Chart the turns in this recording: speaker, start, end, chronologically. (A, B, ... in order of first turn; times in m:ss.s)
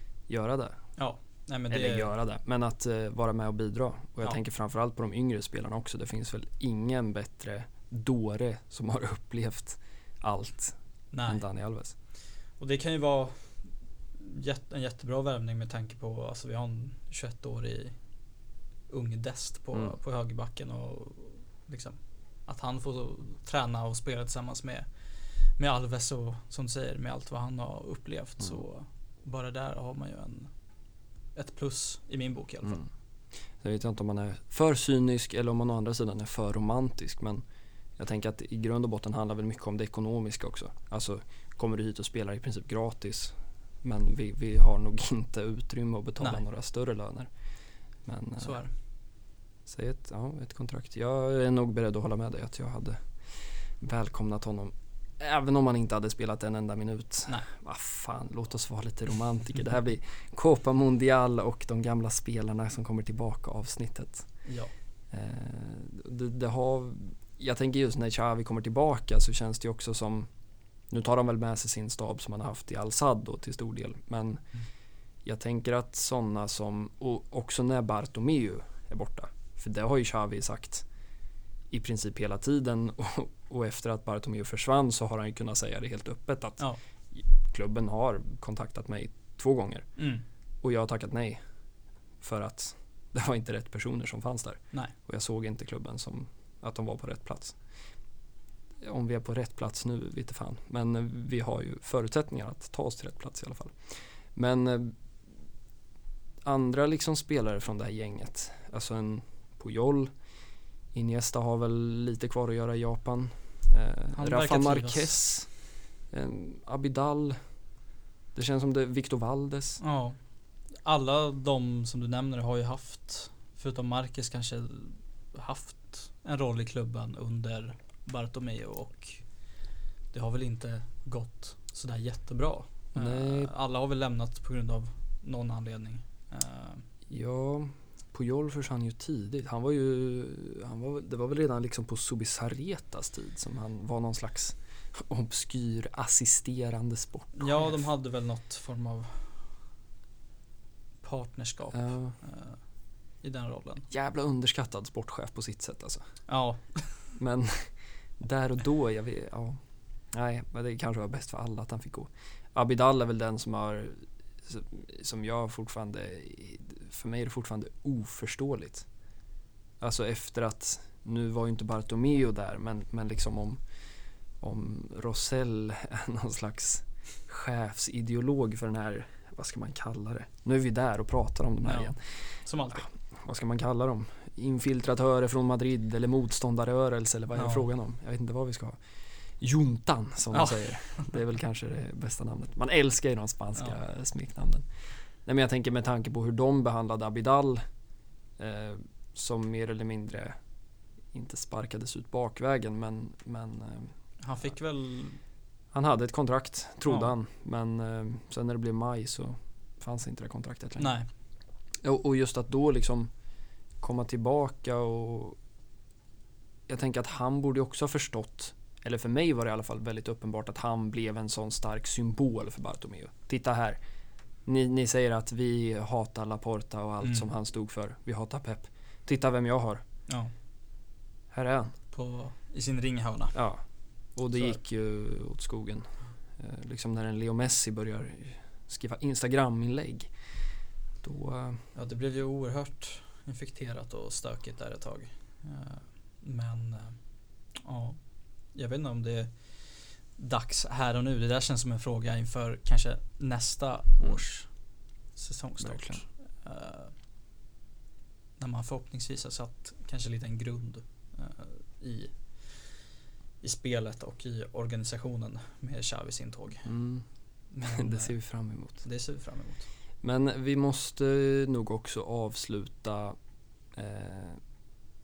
0:00.3-0:00.8 A
0:01.0-0:02.1 B
0:01.7-0:11.9 A
0:11.1-0:11.4 B
0:12.6-0:18.0 B
0:18.9-0:30.5 B
0:19.7-0:20.0 A
0:31.3-0:32.8 B
0:33.5-0:37.4 A
0:38.0-0:47.3 A
0:48.0-0:48.6 A
0:48.4-0:48.7 B
0:49.6-1:04.3 A
1:04.4-1:04.7 B
1:05.1-1:10.3 A
1:10.9-1:14.4 A
1:15.2-1:20.9 A
1:21.7-1:29.9 A
1:30.0-1:30.2 B
1:30.6-1:31.4 A
1:32.2-1:37.6 A
1:38.8-1:45.0 A
1:46.4-1:50.1 A
1:50.9-1:57.5 A
1:54.1-1:55.2 B
1:58.3-1:59.8 A
1:59.8-2:00.2 B
2:00.8-2:09.3 B
2:10.1-2:16.8 B
2:12.9-2:13.5 A
2:17.1-2:27.9 A
2:27.3-2:29.5 B
2:31.0-2:32.6 B
2:31.7-2:32.2 A
2:33.2-2:33.9 B
2:33.9-2:36.2 A
2:36.3-2:37.1 B
2:37.1-2:39.6 A
2:40.1-2:48.9 A
2:49.8-2:53.6 A
2:54.4-3:17.6 A
3:01.6-3:02.9 B
3:07.3-3:07.6 B
3:10.3-3:11.1 B
3:18.4-3:20.4 A
3:21.1-3:24.5 A
3:24.2-3:25.2 B
3:25.7-3:31.0 A
3:26.8-3:27.1 B
3:30.8-3:31.1 B
3:31.8-3:33.1 A
3:33.8-3:35.4 A
3:36.7-3:43.8 A
3:44.4-3:49.8 A
3:47.0-3:47.3 B
3:51.3-3:51.8 A
3:51.9-3:53.4 B
3:53.3-4:00.2 A
4:01.0-4:01.7 A
4:01.7-4:16.9 B
4:14.0-4:14.2 A
4:15.6-4:16.0 A
4:18.4-4:22.9 B
4:23.4-4:26.7 B
4:26.6-4:27.0 A
4:27.5-4:28.2 B
4:27.6-4:28.8 A
4:28.7-4:29.7 B
4:30.0-4:33.2 A
4:33.7-4:34.4 A